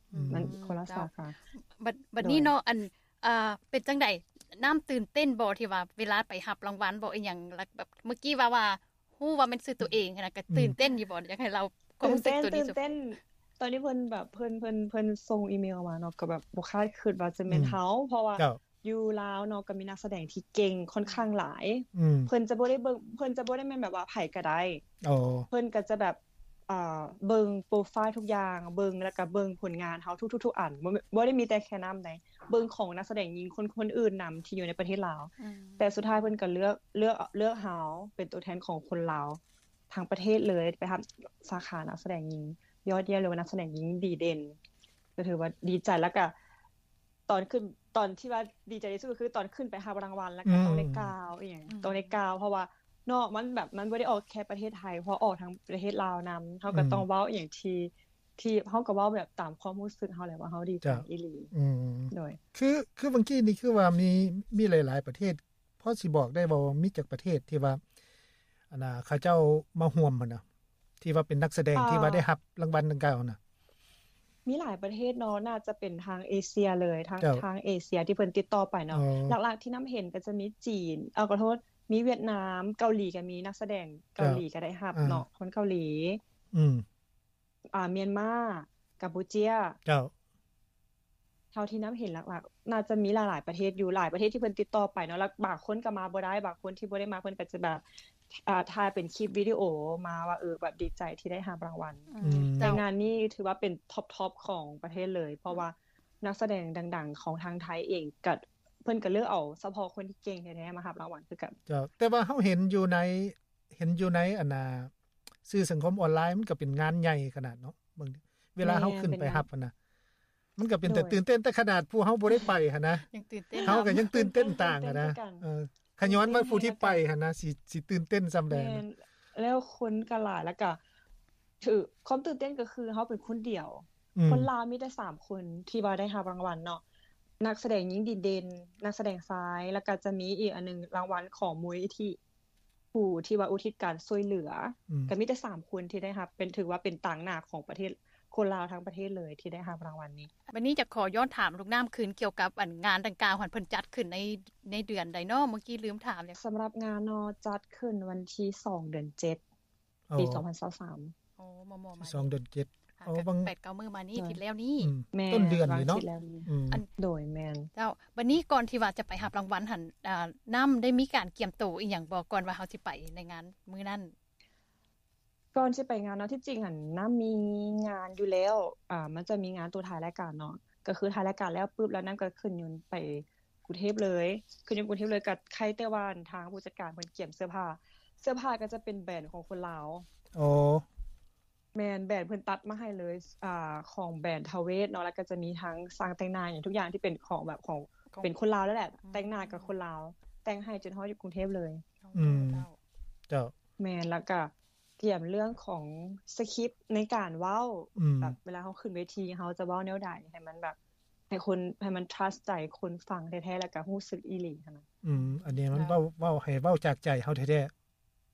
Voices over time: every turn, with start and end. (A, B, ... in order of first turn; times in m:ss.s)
0:00.1-0:00.5 A
0:00.1-0:12.8 B
0:00.3-0:01.3 C
0:02.2-0:02.5 C
0:10.5-0:10.8 A
0:12.0-0:24.8 C
0:17.5-0:17.8 A
0:21.9-0:22.3 A
0:25.0-0:25.5 A
0:25.5-0:39.4 C
0:35.4-0:36.2 B
0:39.9-0:44.5 C
0:45.2-0:46.3 C
0:47.3-1:01.5 C
0:50.4-0:51.1 A
0:51.7-0:52.1 B
0:56.7-0:57.0 A
1:00.8-1:07.8 A
1:02.1-1:02.4 C
1:08.7-1:10.4 A
1:11.0-1:13.4 A
1:11.7-1:12.3 C
1:14.4-1:26.2 C
1:18.9-1:19.4 A
1:24.9-1:25.2 A
1:26.5-1:26.8 A
1:27.7-1:29.8 C
1:29.8-1:30.1 A
1:31.5-1:51.6 C
1:42.1-1:42.8 B
1:42.2-1:42.8 A
1:51.7-1:54.9 A
1:55.5-1:59.7 A
1:58.6-1:59.5 C
2:00.6-2:03.0 A
2:00.8-2:01.2 C
2:03.1-2:04.0 B
2:03.5-2:05.4 C
2:03.6-2:08.8 A
2:06.0-2:07.0 C
2:08.5-2:10.8 C
2:11.6-2:16.8 C
2:14.2-2:14.5 A
2:17.4-2:22.2 C
2:22.9-2:30.3 C
2:30.5-2:36.4 B
2:36.4-2:39.4 C
2:40.1-2:40.4 A
2:40.2-2:41.1 C
2:41.4-2:42.3 B
2:42.0-2:43.5 A
2:43.0-2:44.9 B
2:44.8-2:46.8 A
2:45.1-2:47.7 C
2:47.7-2:54.1 B
2:55.5-3:10.0 C
3:10.3-3:10.8 A
3:11.7-3:21.8 C
3:19.0-3:19.7 B
3:22.0-3:22.8 B
3:22.1-3:22.6 A
3:23.8-3:30.8 C
3:28.0-3:28.3 A
3:31.3-3:34.8 C
3:35.0-3:37.7 A